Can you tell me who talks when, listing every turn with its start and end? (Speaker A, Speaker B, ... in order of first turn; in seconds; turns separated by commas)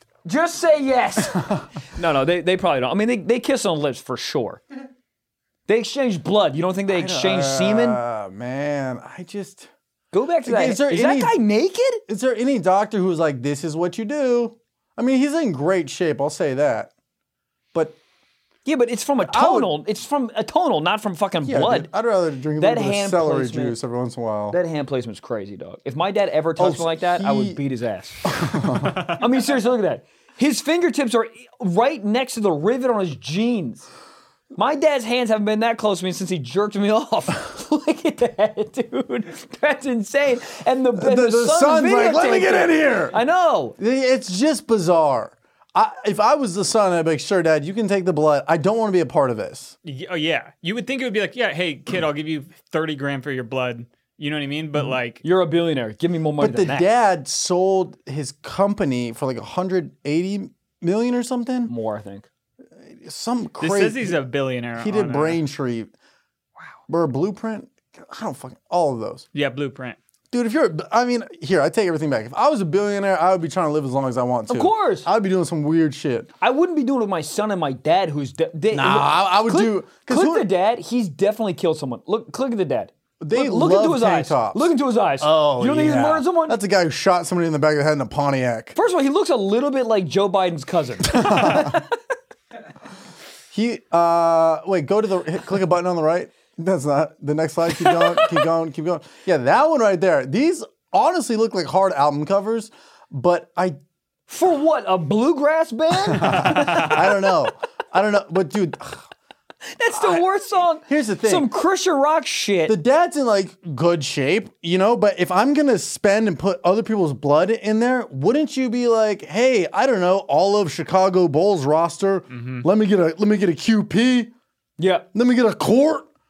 Speaker A: 0.2-4.6, Speaker B: 1.3-1.7, Speaker A: 5.7-8.0, Speaker B: 6.9-9.7, Speaker A: 10.1-12.0, Speaker B: 10.4-11.3, Speaker B: 12.1-16.9, Speaker A: 18.6-21.9, Speaker B: 19.2-19.7, Speaker B: 21.4-24.6, Speaker A: 22.6-23.8, Speaker A: 24.5-33.9, Speaker B: 26.6-27.6, Speaker B: 28.2-29.1, Speaker A: 34.5-43.8, Speaker B: 41.0-43.2, Speaker B: 43.8-49.7, Speaker C: 49.8-55.2, Speaker A: 55.2-56.9, Speaker B: 56.4-61.7, Speaker A: 61.7-62.3, Speaker B: 62.9-64.2, Speaker C: 63.6-65.4, Speaker B: 64.8-65.9, Speaker B: 66.9-69.2, Speaker C: 69.3-70.0, Speaker B: 70.3-76.3, Speaker A: 74.5-75.1, Speaker A: 76.4-86.6, Speaker B: 78.7-80.5, Speaker B: 83.2-88.8, Speaker A: 88.8-91.9, Speaker B: 91.0-91.8, Speaker B: 93.5-103.8, Speaker A: 97.8-98.4, Speaker A: 104.3-107.3, Speaker B: 106.1-109.0, Speaker A: 109.8-112.8, Speaker B: 109.9-110.2, Speaker B: 110.8-111.5, Speaker B: 112.7-124.3, Speaker C: 122.3-122.6, Speaker A: 124.8-125.0, Speaker B: 125.1-126.0